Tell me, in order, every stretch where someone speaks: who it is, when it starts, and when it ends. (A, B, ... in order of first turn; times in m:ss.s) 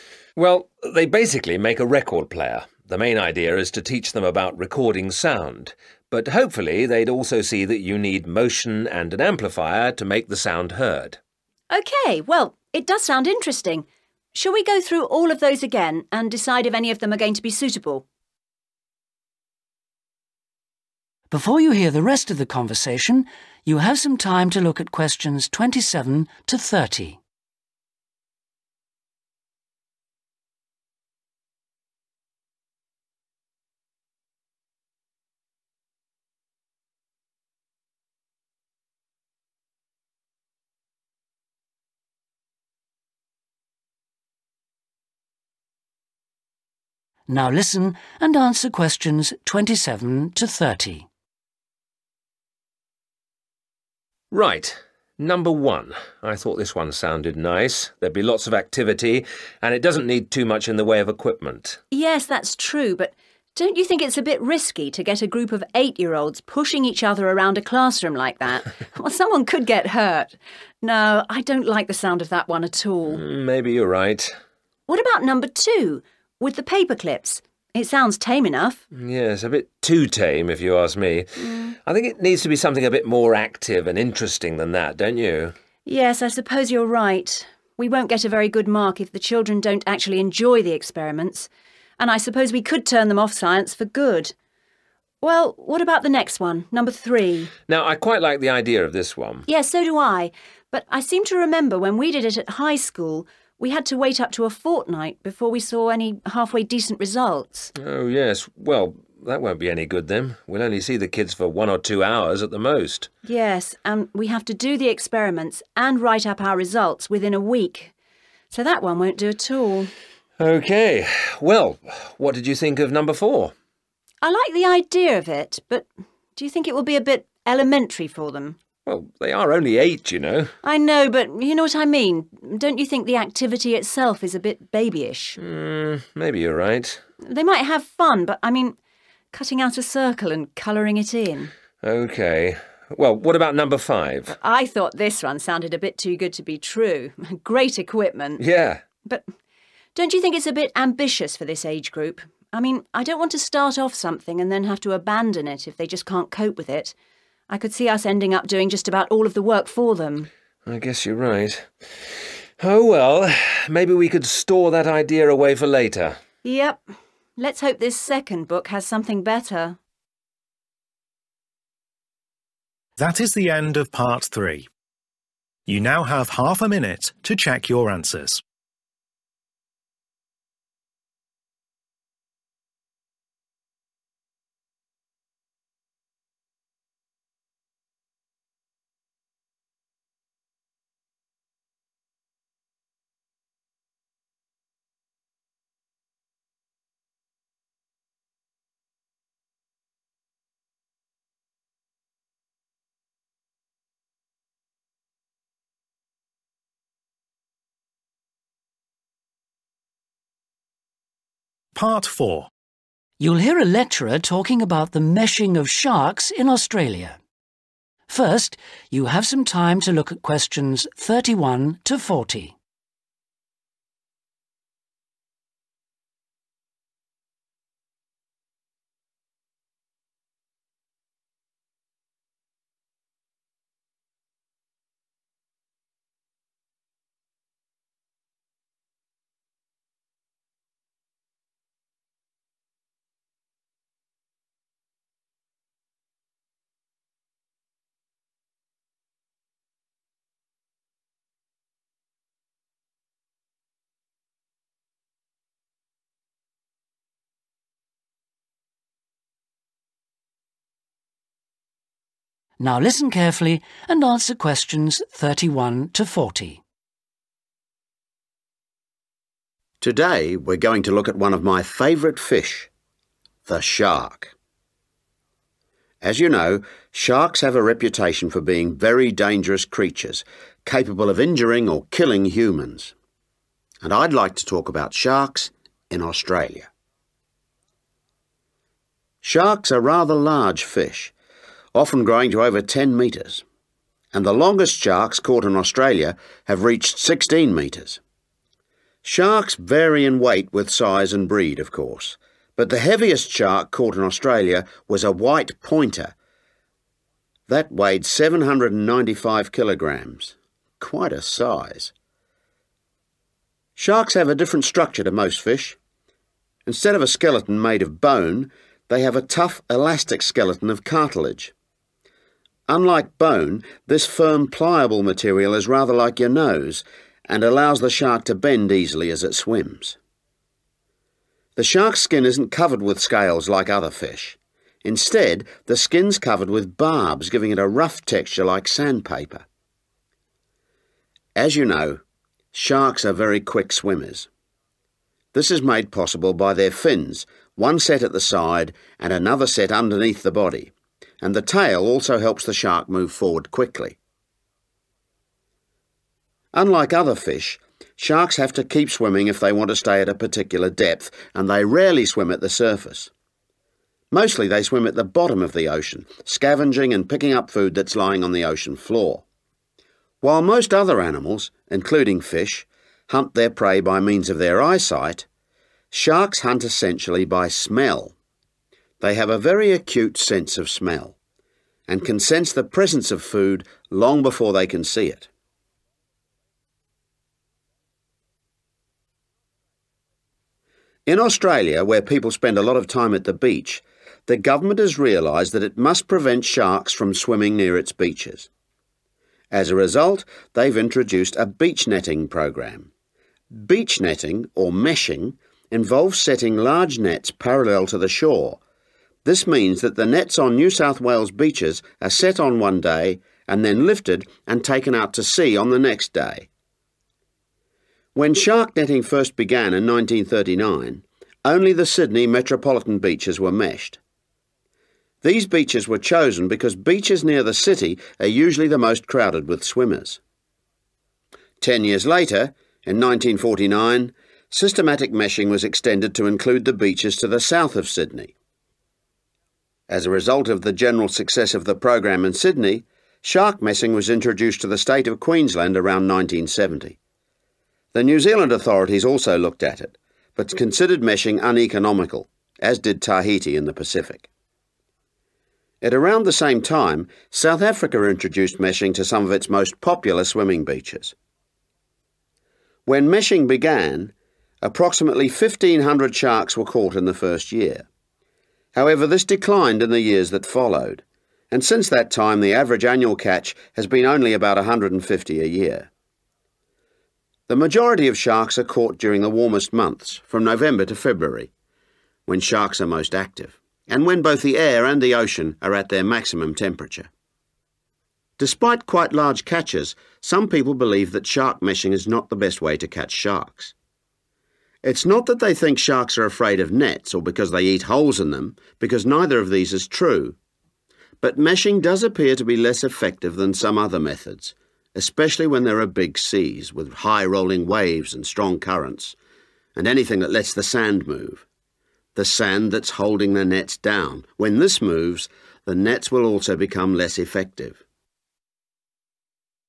0:00.4-0:11.2 A
0:11.7-0:18.0 B
0:21.3-0:27.2 C
0:47.3-0:51.1 C
0:54.3-1:01.8 A
1:01.9-1:13.2 B
1:13.1-1:14.3 A
1:14.9-1:18.8 B
1:18.9-1:25.5 A
1:21.4-1:21.7 B
1:25.8-1:34.3 B
1:35.2-1:37.5 B
1:37.7-1:39.4 A
1:39.5-1:47.7 B
1:47.8-1:53.1 A
1:53.2-1:57.9 B
1:58.5-1:59.9 B
2:00.4-2:03.5 A
2:04.2-2:08.6 B
2:08.8-2:10.5 A
2:10.6-2:15.4 B
2:15.4-2:17.0 A
2:17.2-2:18.8 B
2:19.3-2:21.5 B
2:21.8-2:24.4 A
2:24.3-2:28.4 B
2:28.4-2:28.8 A
2:29.9-2:36.9 B
2:37.5-2:40.3 B
2:40.6-2:46.2 A
2:46.4-2:46.8 B
2:47.4-2:49.8 B
2:53.0-2:54.7 D
2:55.7-2:58.4 D
3:31.7-3:32.5 D
3:33.2-3:37.2 C
3:38.1-3:42.5 C
4:22.6-4:26.6 C
4:29.8-4:32.7 E
4:33.4-4:34.3 E
4:36.0-4:42.9 E
4:43.8-4:46.7 E
4:49.2-4:51.1 E
4:51.7-4:53.4 E
4:54.1-4:58.0 E
4:59.0-5:06.1 E
5:07.5-5:11.9 E
5:13.8-5:15.8 E
5:16.6-5:21.5 E
5:22.7-5:30.0 E
5:31.6-5:39.4 E
5:41.4-5:42.0 E
5:42.5-5:44.3 E
5:45.3-5:54.0 E
5:56.5-6:03.1 E
6:04.1-6:09.2 E
6:10.2-6:15.2 E
6:15.9-6:18.1 E
6:19.0-6:21.2 E
6:21.9-6:25.3 E
6:31.0-6:38.5 E
6:39.5-6:42.9 E
6:43.5-6:48.6 E
6:49.2-6:56.5 E
6:58.1-7:04.0 E
7:05.2-7:10.2 E
7:11.6-7:18.3 E
7:19.9-7:27.0 E
7:27.9-7:34.3 E
7:35.8-7:41.1 E
7:42.8-7:47.9 E
7:48.7-7:55.9 E
7:57.5-8:01.5 E
8:02.3-8:07.1 E
8:08.4-8:13.7 E
8:14.8-8:20.4 E
8:21.2-8:29.2 E
8:29.8-8:31.4 E
8:32.1-8:37.8 E